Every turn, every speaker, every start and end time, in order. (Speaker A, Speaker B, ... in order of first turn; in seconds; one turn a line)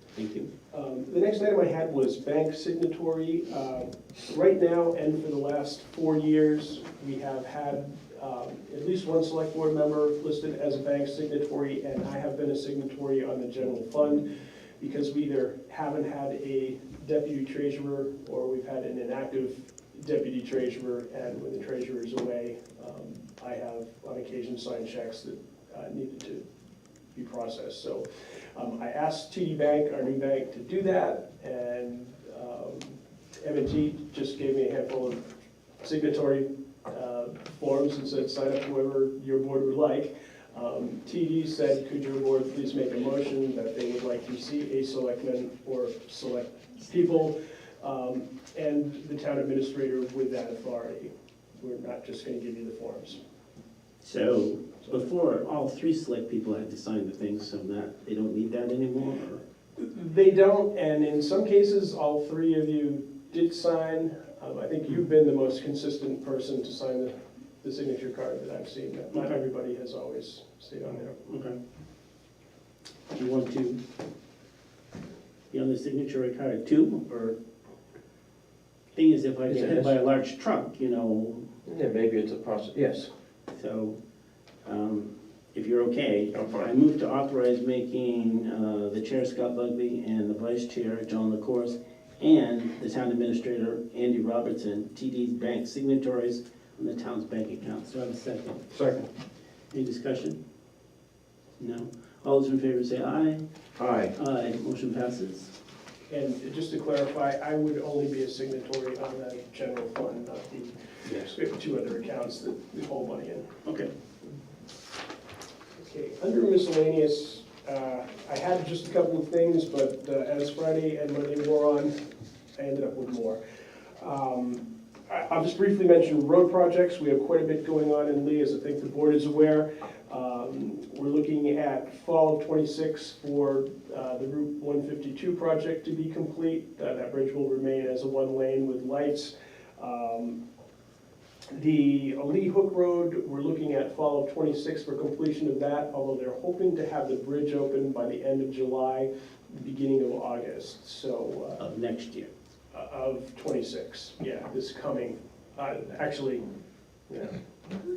Speaker A: 0.1-0.5
Speaker B: 0.7-14.3
Speaker B: 14.8-26.4
Speaker B: 27.1-35.2
Speaker B: 35.8-53.2
Speaker A: 54.0-59.4
Speaker B: 59.8-71.2
Speaker A: 71.2-71.6
Speaker A: 73.1-73.8
Speaker A: 75.5-77.4
Speaker A: 78.9-81.5
Speaker C: 79.5-80.0
Speaker C: 81.7-83.1
Speaker A: 83.5-84.0
Speaker A: 84.7-98.6
Speaker C: 86.3-86.7
Speaker C: 98.7-99.1
Speaker A: 99.7-100.4
Speaker A: 101.6-103.4
Speaker C: 103.8-104.2
Speaker A: 104.2-105.5
Speaker B: 106.1-113.5
Speaker A: 113.7-113.9
Speaker B: 115.8-121.9
Speaker B: 122.5-123.4
Speaker B: 124.0-140.4
Speaker B: 141.5-151.7
Speaker A: 151.6-152.3
Speaker B: 152.7-156.5
Speaker B: 157.1-157.4